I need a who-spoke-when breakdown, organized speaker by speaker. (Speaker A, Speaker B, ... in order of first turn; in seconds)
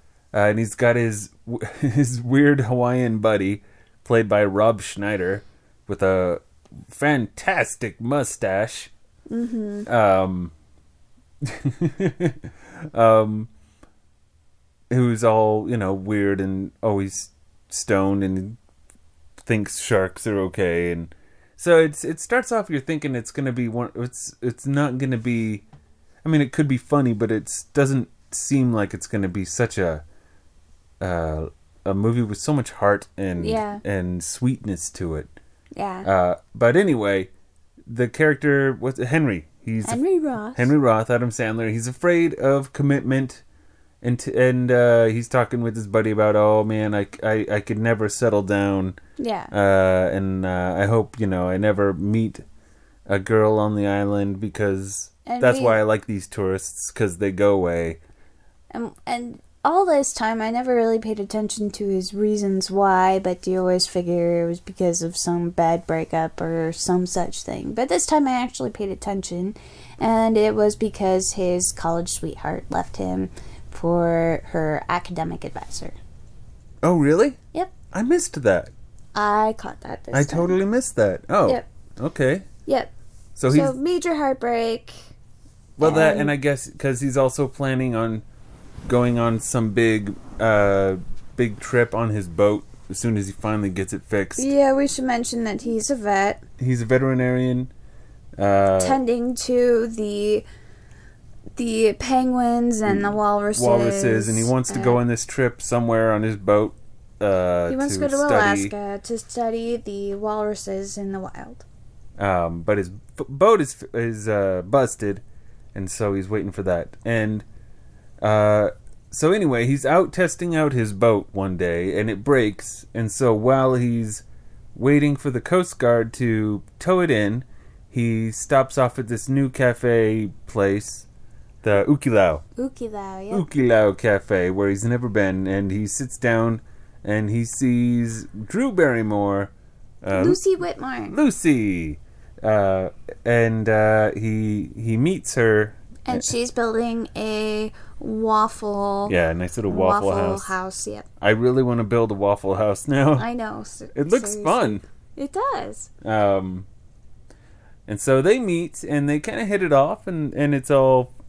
Speaker A: 0.3-8.9, 9.9-10.5, 11.4-13.5, 14.9-18.6, 19.4-25.6, 26.2-30.0, 31.0-35.3, 36.0-37.3, 37.9-40.0, 40.5-43.4, 44.0-49.0, 49.5-52.5, 53.1-58.0, 76.8-77.4, 77.9-78.7, 80.1-82.5, 83.4-83.8, 85.8-88.2, 88.9-94.5, 96.6-97.7, 98.4-99.0, 102.9-108.7, 112.2-115.2, 115.7-117.5, 118.2-124.2, 124.8-131.1, 131.6-132.4, 133.3-139.5, 140.0-140.4, 141.1-146.3, 149.1-150.6, 151.2-153.3, 153.9-154.8, 156.0-156.7, 157.9-161.1
Speaker B: 9.3-9.9, 33.4-33.8, 35.7-36.1, 39.8-40.7, 49.2-49.5, 55.3-55.8, 58.7-76.0, 79.2-80.6, 82.7-82.9, 83.5-85.0, 85.8-86.3, 94.4-96.4, 98.8-100.5, 101.6-105.0, 107.7-111.6, 132.6-133.5, 140.1-141.2, 146.1-149.2, 149.7-151.1, 153.2-155.9